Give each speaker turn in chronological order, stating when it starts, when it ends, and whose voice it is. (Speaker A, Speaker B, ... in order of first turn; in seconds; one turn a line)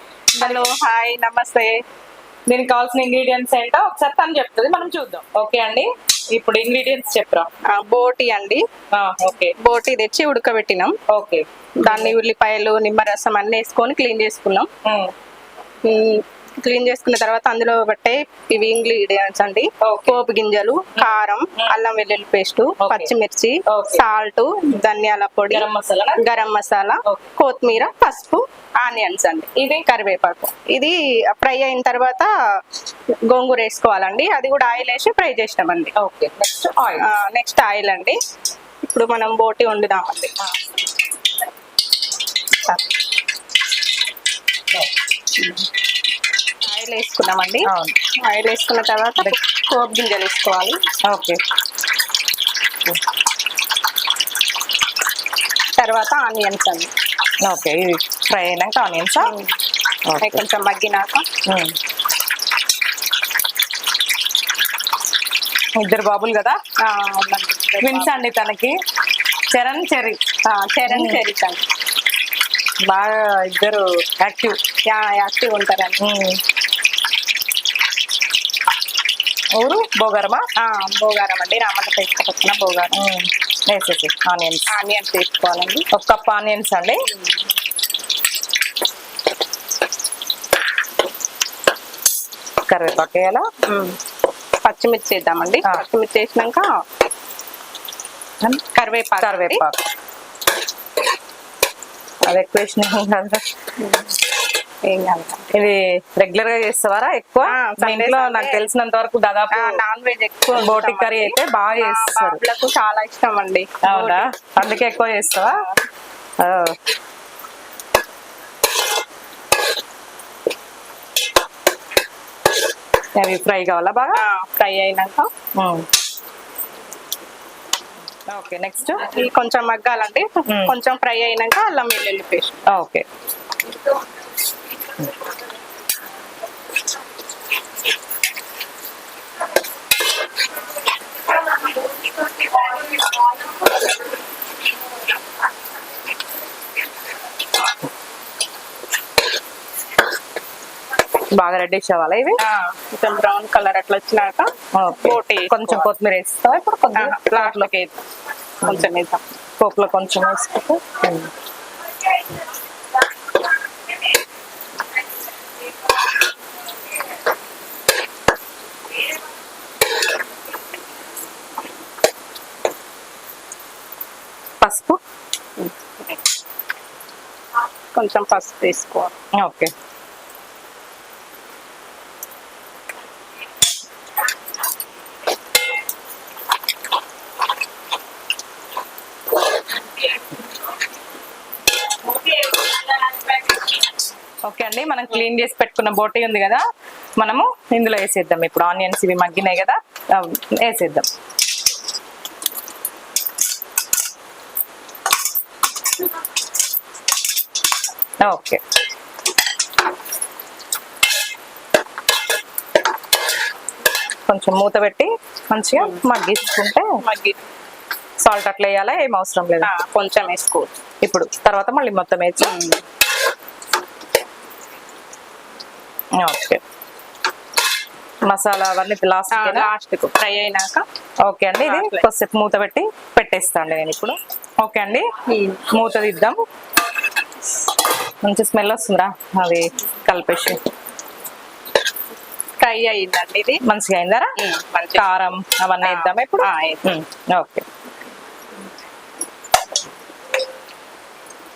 Speaker A: 0.3-0.7
Speaker B: 0.4-1.8
Speaker A: 2.5-7.5
Speaker B: 7.7-8.6
Speaker A: 8.9-9.5
Speaker B: 9.6-10.9
Speaker A: 11.1-12.2
Speaker B: 11.8-14.7
Speaker A: 14.8-15.1
Speaker B: 15.8-32.3
Speaker A: 19.8-20.2
Speaker A: 21.0-21.8
Speaker A: 22.8-23.1
Speaker A: 23.7-24.0
Speaker A: 25.5-26.4
Speaker B: 33.3-35.9
Speaker A: 36.0-37.1
Speaker B: 37.0-38.2
Speaker B: 38.8-40.3
Speaker B: 45.4-45.6
Speaker B: 46.6-47.7
Speaker A: 47.7-48.0
Speaker B: 48.2-50.8
Speaker A: 51.0-51.4
Speaker B: 55.8-56.9
Speaker A: 57.4-59.3
Speaker B: 59.2-59.5
Speaker A: 60.1-60.4
Speaker B: 60.2-61.2
Speaker A: 61.5-61.8
Speaker A: 65.8-66.6
Speaker B: 66.8-68.2
Speaker A: 67.8-68.7
Speaker A: 69.5-70.2
Speaker B: 70.4-71.6
Speaker A: 70.9-71.2
Speaker A: 72.8-74.6
Speaker B: 74.9-76.0
Speaker A: 76.0-76.4
Speaker A: 79.5-80.4
Speaker B: 80.6-83.0
Speaker A: 82.9-84.7
Speaker B: 84.7-85.8
Speaker A: 85.9-87.0
Speaker A: 92.7-93.4
Speaker B: 93.7-94.0
Speaker B: 94.6-96.7
Speaker B: 98.7-99.6
Speaker A: 99.2-99.8
Speaker A: 102.2-103.4
Speaker B: 103.8-104.1
Speaker B: 104.8-105.5
Speaker A: 105.5-109.8
Speaker B: 107.4-108.7
Speaker B: 109.5-114.2
Speaker A: 110.5-112.4
Speaker A: 113.8-115.6
Speaker B: 115.5-115.8
Speaker A: 116.4-116.8
Speaker A: 123.2-124.2
Speaker B: 124.1-125.3
Speaker A: 125.5-125.9
Speaker A: 128.3-129.1
Speaker B: 129.0-132.6
Speaker A: 130.5-130.7
Speaker A: 132.7-133.0
Speaker A: 151.3-152.4
Speaker B: 152.4-155.9
Speaker A: 154.7-157.7
Speaker B: 156.9-158.0
Speaker B: 158.6-159.2
Speaker A: 159.6-161.3
Speaker A: 174.6-175.0
Speaker B: 175.6-176.2
Speaker B: 177.9-179.1
Speaker A: 179.4-179.7
Speaker A: 194.4-196.6
Speaker A: 197.2-201.1
Speaker A: 208.2-208.6
Speaker A: 214.3-216.9
Speaker B: 217.0-217.4
Speaker A: 218.2-219.7
Speaker B: 219.6-220.7
Speaker A: 221.0-222.5
Speaker B: 222.4-222.8
Speaker A: 226.2-226.6
Speaker A: 228.2-229.7
Speaker B: 229.3-230.8
Speaker A: 231.2-235.1
Speaker B: 231.6-232.1
Speaker B: 235.3-235.6
Speaker A: 235.7-236.4
Speaker A: 238.2-240.6
Speaker B: 242.6-243.6
Speaker A: 243.6-244.3
Speaker B: 244.4-245.2
Speaker A: 244.9-247.6
Speaker B: 245.8-247.0